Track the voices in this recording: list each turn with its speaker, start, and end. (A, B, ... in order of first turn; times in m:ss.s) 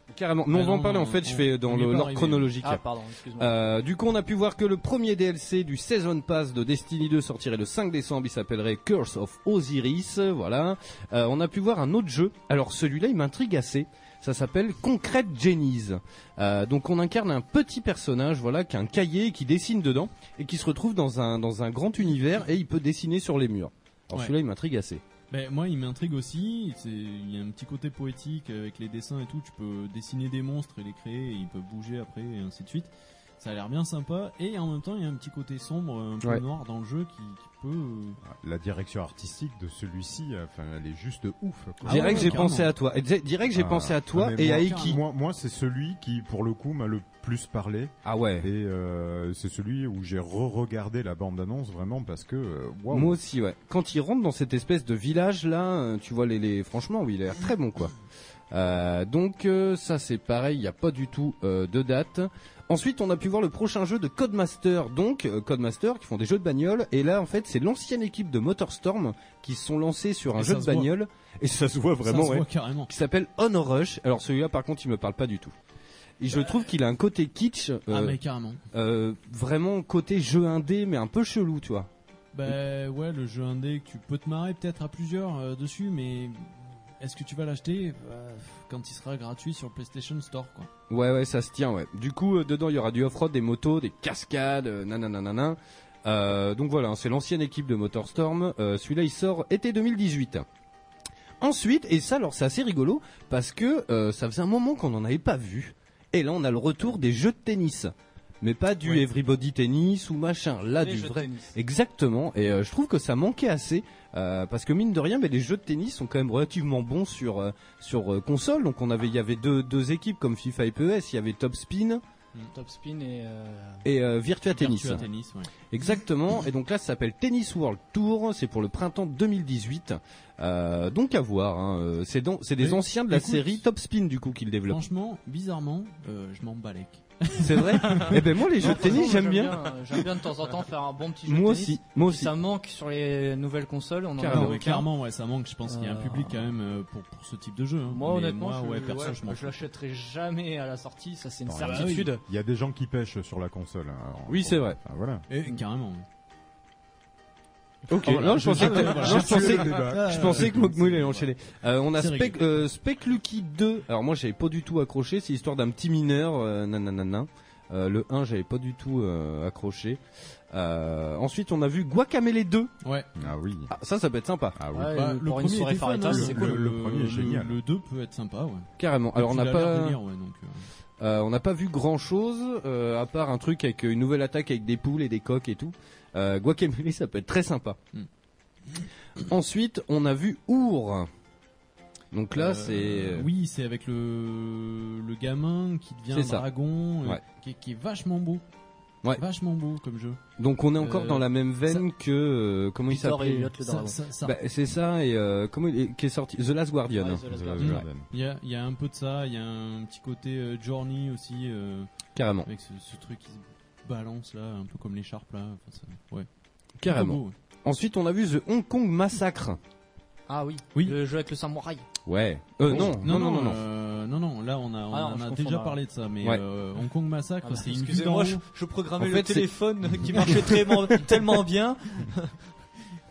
0:00.1-0:02.8 A
0:00.5-0:02.5 B
0:02.6-0:03.6 C
0:03.4-0:25.0 A
0:25.3-0:38.2 B
0:38.2-0:42.4 D
0:41.8-0:42.7 B
0:41.8-0:45.0 A
0:43.5-0:53.2 D
0:44.4-0:44.9 B
0:48.0-0:48.5 A
0:52.9-0:57.9 A
0:58.5-1:15.5 A
1:10.3-1:10.9 B
1:12.0-1:12.9 B
1:16.2-1:18.2 A
1:17.9-1:18.6 B
1:18.7-1:21.9 A
1:22.3-1:30.7 B
1:30.9-1:40.4 A
1:41.4-2:02.0 A
1:50.7-1:51.5 C
2:02.5-2:03.8 C
2:03.8-2:05.0 A
2:04.5-2:05.5 B
2:05.7-2:14.8 A
2:12.6-2:13.6 B
2:14.7-2:18.8 B
2:17.4-2:19.6 A
2:18.6-2:24.9 C
2:21.3-2:22.3 A
2:24.2-2:24.6 A
2:24.3-2:29.6 B
2:25.7-2:26.4 C
2:27.9-2:32.2 C
2:31.5-2:35.2 D
2:31.6-2:32.1 B
2:34.3-2:34.8 A
2:35.3-2:36.0 B
2:37.9-2:50.0 A
2:38.0-2:40.9 D
2:38.0-2:41.3 B
2:42.0-2:42.4 B
2:50.5-2:52.7 A
2:52.8-2:53.1 B
2:53.2-2:53.7 D
2:53.7-2:54.6 A
2:54.5-2:54.9 D
2:54.7-2:56.6 C
2:54.9-3:00.6 B
2:56.0-2:57.6 D
2:58.8-3:00.0 A
3:01.0-3:07.8 A
3:09.2-3:11.1 A
3:12.1-3:13.3 A
3:12.3-3:18.4 B
3:16.1-3:16.4 A
3:19.2-3:20.2 B
3:20.4-3:23.5 A
3:20.8-3:21.8 B
3:22.9-3:24.0 C
3:23.6-3:24.4 B
3:24.2-3:27.8 A
3:26.9-3:27.8 C
3:27.3-3:28.1 D
3:27.6-3:31.9 B
3:32.2-3:32.5 A
3:32.4-3:36.3 B
3:36.8-3:39.6 A
3:36.9-3:37.3 B
3:40.3-3:41.8 C
3:42.1-3:43.6 A
3:42.7-3:48.4 B
3:44.9-3:45.8 C
3:47.4-3:52.3 C
3:49.0-3:49.5 A